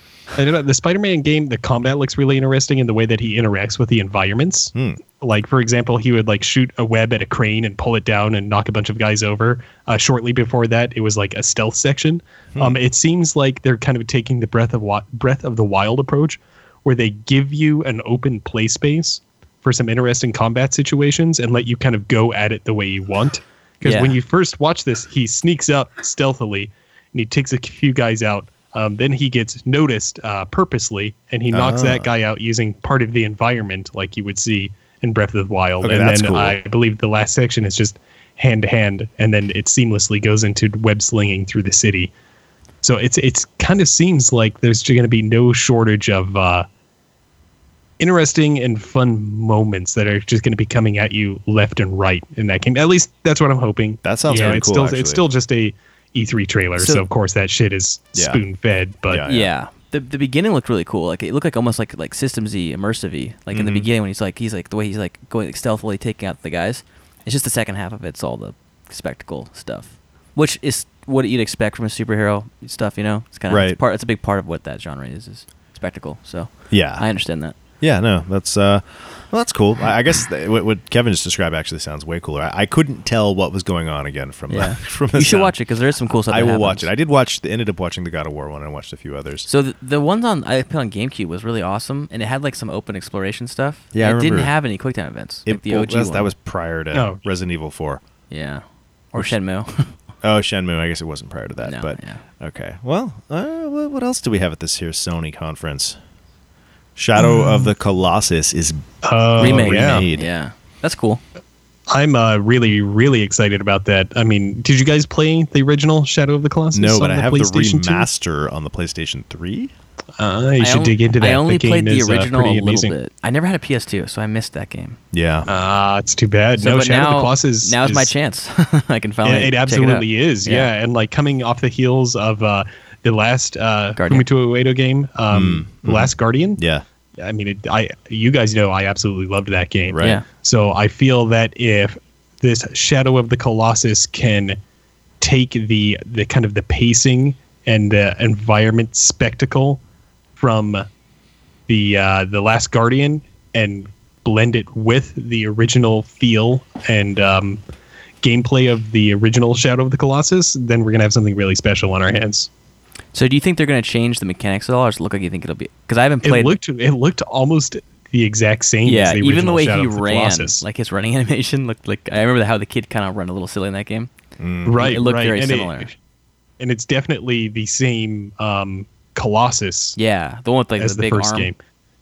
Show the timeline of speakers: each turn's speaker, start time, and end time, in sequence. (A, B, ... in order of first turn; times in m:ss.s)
0:00.4-0:42.1 A
0:04.7-0:05.0 B
0:23.8-0:24.2 C
0:31.5-0:32.1 B
0:35.8-0:36.6 B
0:42.8-0:46.7 A
0:48.0-0:59.2 A
0:54.0-0:55.2 B
0:54.3-0:54.7 C
0:56.8-0:57.0 B
0:58.1-0:58.4 B
0:59.1-0:59.5 B
0:59.3-1:17.6 C
1:03.5-1:03.9 B
1:13.5-1:13.8 B
1:16.7-1:17.0 B
1:17.8-1:25.6 B
1:24.5-1:26.9 C
1:26.3-1:29.5 B
1:29.4-1:36.3 C
1:33.9-1:34.5 B
1:35.5-1:38.0 B
1:36.9-1:37.2 A
1:38.3-1:39.9 C
1:40.2-1:46.0 B
1:41.6-1:42.2 C
1:47.0-1:48.8 B
1:47.2-1:47.7 A
1:49.0-1:50.0 A
1:49.4-1:50.3 B
1:49.4-1:51.2 C
1:51.9-1:58.1 A
1:56.7-1:59.7 B
2:00.2-2:02.9 A
2:00.6-2:05.0 C
2:05.1-2:05.5 B
2:05.5-2:08.1 A
2:06.6-2:10.7 C
2:09.2-2:16.6 A
2:14.0-2:14.3 C
2:15.3-2:16.8 B
2:17.2-2:24.6 A
2:19.9-2:20.2 B
2:25.2-2:29.8 A
2:30.4-2:30.8 A
2:31.7-2:37.6 A
2:38.2-2:42.5 A
2:43.1-2:46.6 C
2:46.2-2:50.6 A
2:48.8-2:54.1 C
2:54.4-2:54.8 B
2:54.6-2:55.9 A
2:54.8-2:55.9 C
2:56.6-3:00.0 A
3:00.0-3:01.5 C
3:00.8-3:01.6 A